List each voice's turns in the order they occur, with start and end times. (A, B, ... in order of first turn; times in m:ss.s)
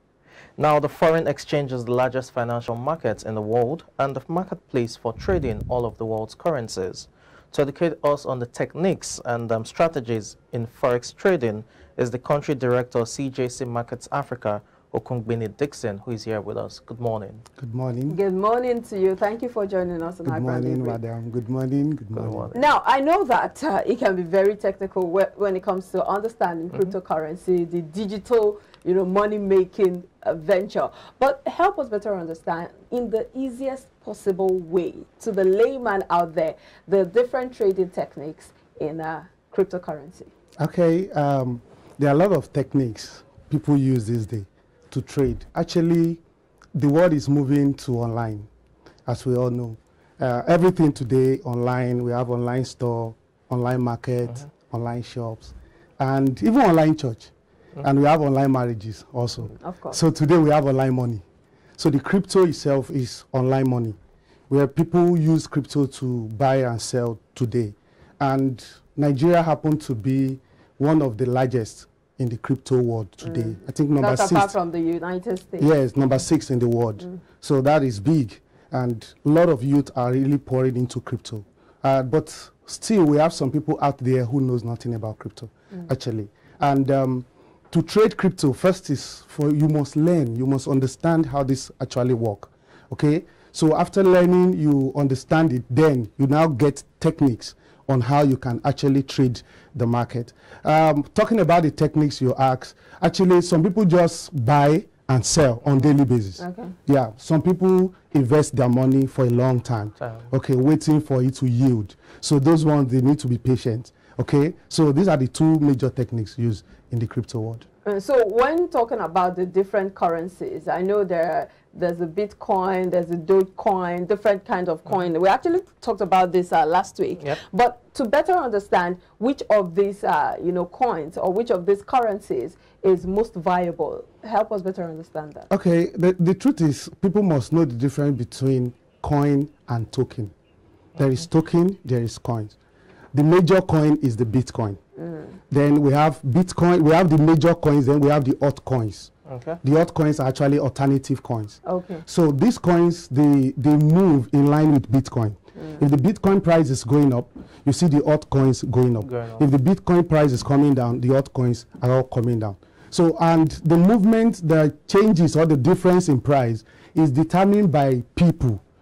0:00.6-0:17.4 A
0:17.6-0:18.2 B
0:18.1-0:21.0 C
0:20.2-0:22.5 B
0:22.1-0:22.6 A
0:22.5-0:40.3 C
0:40.6-0:46.2 B
0:46.7-0:48.5 B
0:49.0-1:01.2 B
0:59.6-1:00.0 C
1:01.8-1:04.0 B
1:04.5-1:14.5 B
1:13.2-1:15.7 C
1:15.6-1:57.6 B
1:46.4-1:46.7 C
1:50.0-1:50.3 A
1:57.8-2:15.5 C
2:15.5-2:20.3 B
2:21.0-2:22.6 B
2:23.1-2:24.8 B
2:25.0-2:25.3 C
2:25.5-2:29.1 B
2:29.3-2:29.6 A
2:29.6-2:48.6 B
2:31.6-2:32.0 C
2:39.0-2:39.4 A